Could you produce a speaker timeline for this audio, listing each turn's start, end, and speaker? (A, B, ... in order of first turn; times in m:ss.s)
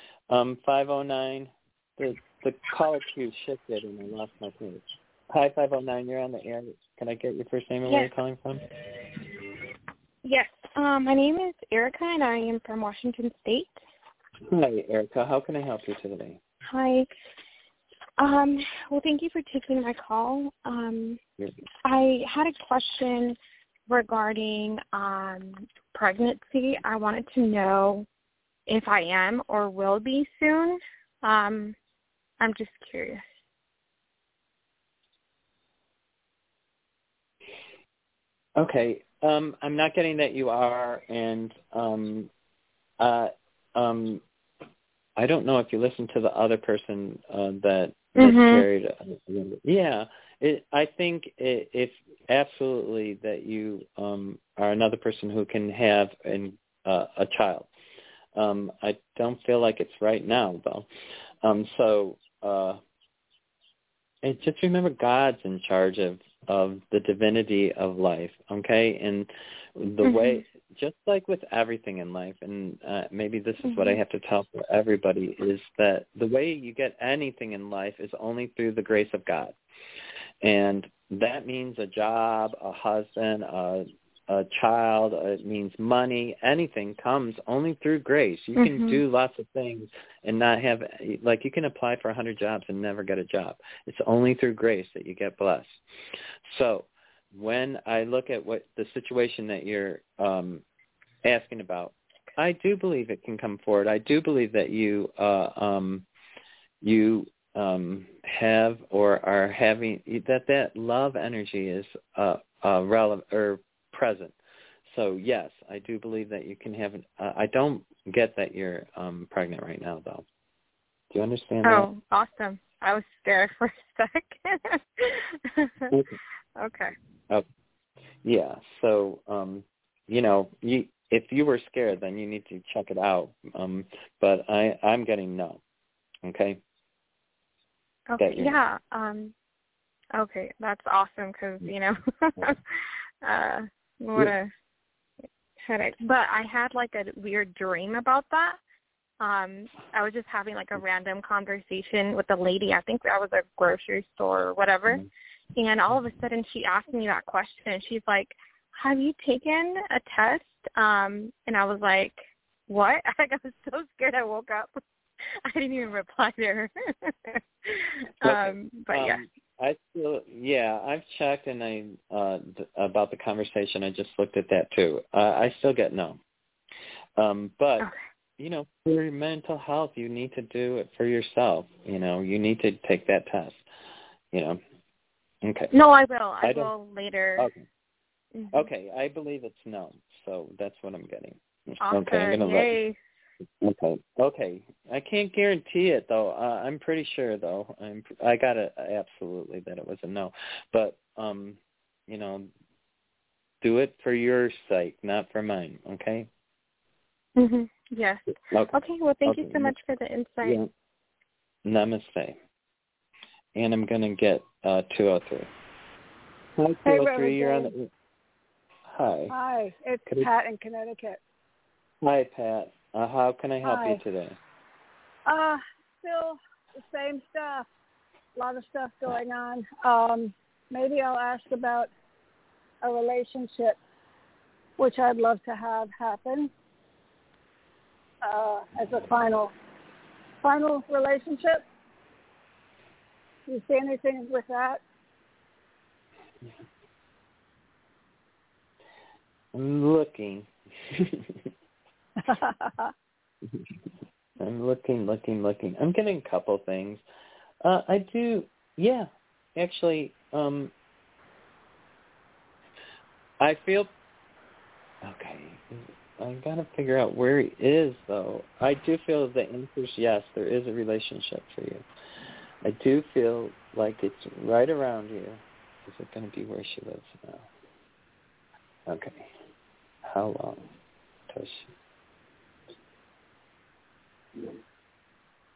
0:00.3-0:08.7 A
0:10.2-0:13.8 B
0:14.5-0:16.4 A
0:16.7-0:17.1 B
0:18.2-0:21.2 B
0:21.8-0:23.4 B
0:23.9-0:28.0 B
0:28.7-0:31.8 B
0:32.4-0:33.2 B
0:38.6-0:42.3 A
0:43.0-0:44.2 A
0:45.2-0:57.7 A
0:48.2-0:48.6 B
0:58.3-1:00.9 A
1:01.4-1:02.8 A
1:04.2-1:19.5 A
1:10.0-1:10.4 B
1:13.6-1:14.0 B
1:20.4-1:35.8 A
1:28.6-1:29.0 B
1:36.4-1:40.6 A
1:41.2-1:46.0 A
1:46.8-1:54.3 A
1:54.9-2:00.2 A
2:01.1-2:01.9 A
2:01.6-2:05.9 B
2:05.9-2:06.2 A
2:06.6-2:06.9 B
2:08.2-2:15.6 A
2:16.2-2:16.6 A
2:18.1-2:19.3 B
2:18.2-2:18.6 A
2:20.1-2:22.6 B
2:23.2-2:24.5 B
2:25.6-2:28.6 B
2:29.2-2:44.8 B
2:45.4-2:49.2 B
2:48.2-2:56.2 A
2:57.2-3:03.6 A
3:04.3-3:04.6 A
3:05.4-3:05.7 A
3:05.7-3:07.5 B
3:06.4-3:06.7 A
3:07.4-3:07.6 A
3:08.3-3:08.7 B
3:08.5-3:12.8 A
3:11.8-3:13.0 B
3:13.6-3:22.5 A
3:23.6-3:26.3 A
3:27.4-3:30.6 B
3:28.5-3:29.7 A
3:30.4-3:30.7 A
3:31.6-3:32.4 A
3:33.5-3:35.5 A
3:36.6-3:37.9 A
3:36.8-3:37.7 C
3:38.9-3:39.3 A
3:39.3-3:41.2 C
3:42.0-3:44.4 A
3:43.6-3:44.0 C
3:45.3-3:47.7 C
3:48.4-3:51.9 C
3:52.8-3:53.8 C
3:54.8-3:56.5 C
3:58.2-3:59.5 C
4:00.4-4:01.6 C
4:03.5-4:04.8 C
4:09.5-4:11.3 A
4:12.2-4:12.9 C
4:14.4-4:17.0 A
4:17.6-4:20.7 A
4:23.4-4:23.9 A
4:25.0-4:31.8 A
4:32.6-4:37.5 A
4:38.9-4:39.3 A
4:40.0-4:40.7 A
4:41.3-4:41.7 A